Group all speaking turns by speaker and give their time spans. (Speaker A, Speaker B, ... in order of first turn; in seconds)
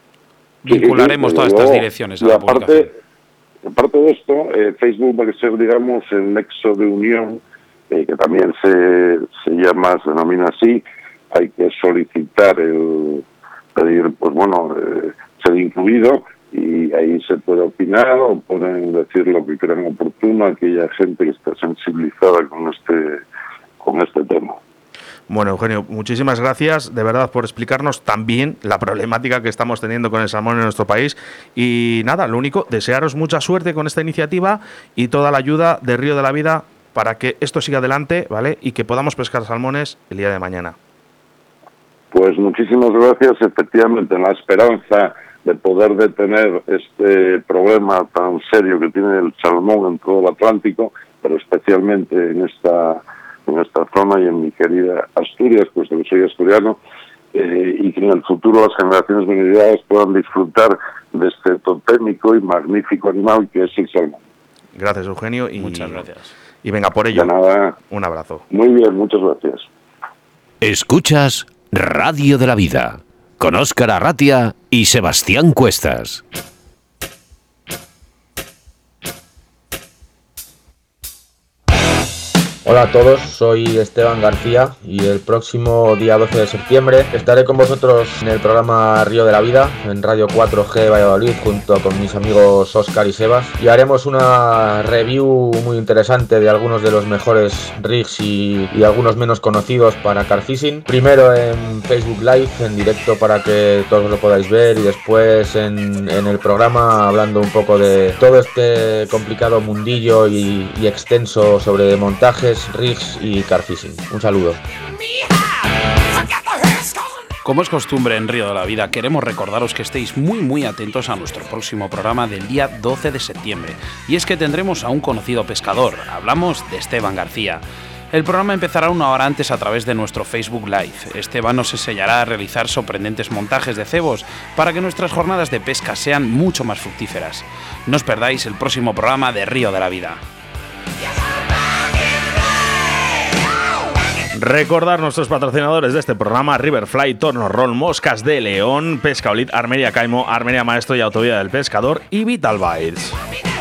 Speaker A: 0.6-2.9, 65.6-66.3, 117.4-140.2
Speaker B: 0.7-2.9, 3.7-23.2, 23.8-24.6, 42.1-56.8, 57.3-64.2, 67.1-67.8, 68.5-69.7
Speaker C: 25.3-40.8, 64.7-66.0, 66.6-67.3, 67.9-68.4, 144.3-153.2
Speaker D: 70.6-76.2
Speaker E: 82.6-114.6